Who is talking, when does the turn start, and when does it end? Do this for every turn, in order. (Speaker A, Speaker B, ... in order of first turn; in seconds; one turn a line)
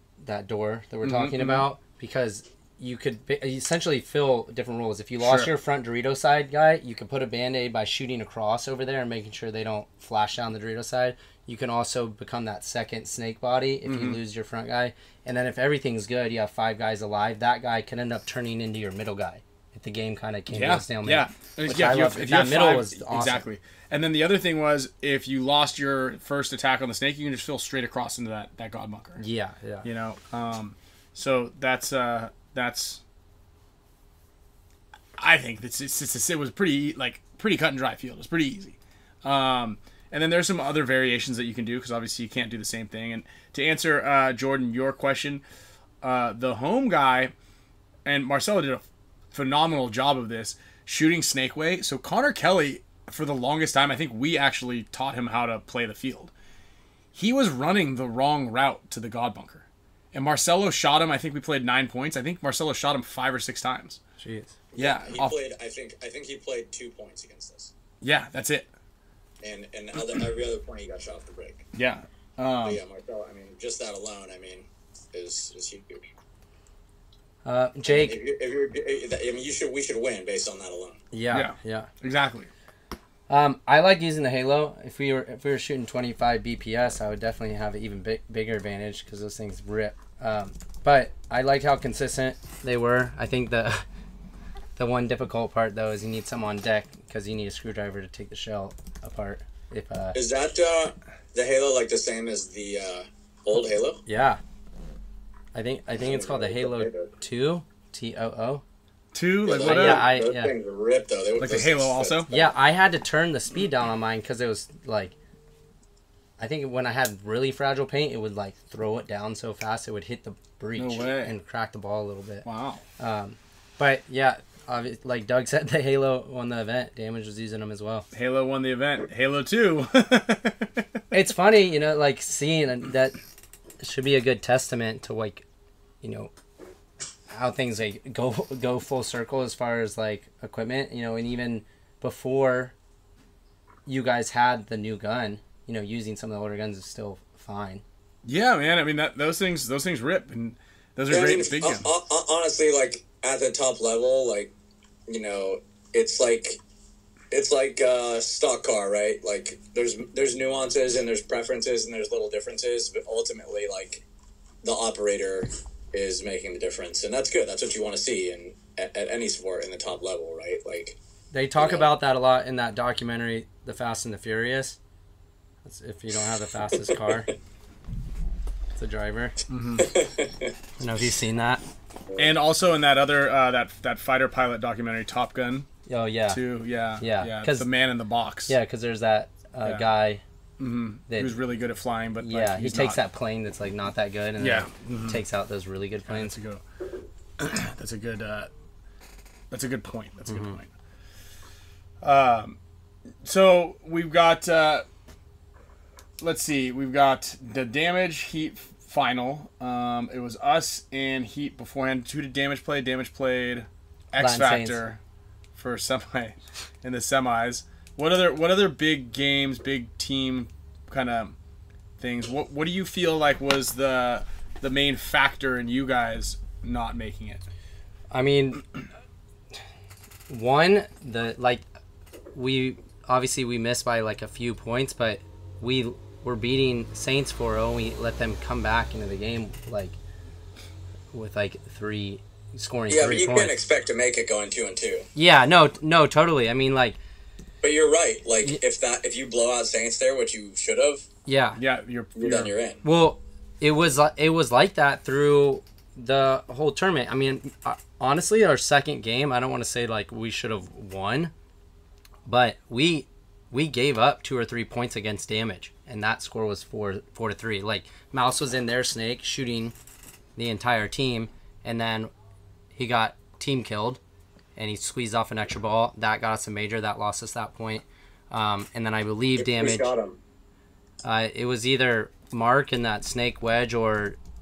Speaker A: 0.2-23.4
Speaker B: 1.0-1.7
Speaker B: 5.2-5.5
Speaker B: 13.8-14.2
Speaker B: 20.5-29.2
Speaker A: 29.2-29.9
Speaker B: 29.8-33.0
Speaker B: 35.2-45.4
Speaker B: 46.0-47.3
Speaker B: 48.0-56.3
Speaker B: 57.1-64.0
Speaker A: 64.2-64.5
Speaker C: 64.7-67.7
Speaker B: 64.8-65.4
Speaker B: 68.0-68.7
Speaker C: 69.4-71.7
Speaker B: 71.8-72.8
Speaker C: 72.6-76.0
Speaker A: 77.4-78.2
Speaker C: 77.9-81.0
Speaker A: 81.1-81.9
Speaker B: 81.3-82.5
Speaker A: 83.3-93.8
Speaker A: 94.8-100.2
Speaker C: 100.1-104.0
Speaker A: 104.0-104.4
Speaker A: 105.5-108.6
Speaker C: 106.0-107.1
Speaker B: 109.1-110.1
Speaker C: 109.5-112.5
Speaker A: 109.5-110.5
Speaker B: 111.4-112.3
Speaker A: 112.3-115.1
Speaker A: 116.4-122.5
Speaker B: 120.8-121.3
Speaker B: 122.4-122.8
Speaker A: 123.0-128.1
Speaker B: 128.1-130.9
Speaker A: 131.1-133.2
Speaker A: 133.8-135.4
Speaker A: 136.0-136.3
Speaker A: 137.3-142.7
Speaker A: 143.8-147.8
Speaker B: 148.2-151.9
Speaker C: 151.1-154.5
Speaker C: 155.1-156.6
Speaker C: 157.3-164.0
Speaker C: 164.6-171.0
Speaker A: 171.3-174.8
Speaker C: 171.6-171.8
Speaker A: 175.6-177.3
Speaker A: 178.8-179.3
Speaker B: 179.5-179.9
Speaker C: 179.8-180.5
Speaker A: 180.8-181.6
Speaker B: 182.2-185.7
Speaker A: 185.9-186.4
Speaker B: 186.3-188.5
Speaker A: 187.0-187.7
Speaker A: 188.5-190.2
Speaker B: 190.6-193.0
Speaker A: 191.1-191.4
Speaker A: 192.2-196.3
Speaker B: 194.4-195.2
Speaker B: 196.1-196.6
Speaker B: 197.4-198.5
Speaker B: 199.5-200.7
Speaker A: 200.2-200.6
Speaker B: 202.0-202.6
Speaker B: 203.2-204.8
Speaker B: 206.2-215.0
Speaker A: 214.2-214.8
Speaker B: 215.5-221.3
Speaker B: 222.0-227.4
Speaker A: 228.1-228.6
Speaker A: 230.3-231.6
Speaker A: 232.3-240.0
Speaker A: 241.1-243.5
Speaker C: 242.9-245.1
Speaker A: 245.1-247.0
Speaker C: 247.6-251.0
Speaker A: 251.3-251.6
Speaker B: 251.6-252.5
Speaker C: 252.2-252.8
Speaker A: 252.8-261.3
Speaker A: 262.2-269.7
Speaker A: 270.4-272.1
Speaker A: 272.7-274.0
Speaker A: 274.6-279.9
Speaker C: 279.4-280.2
Speaker A: 281.0-284.2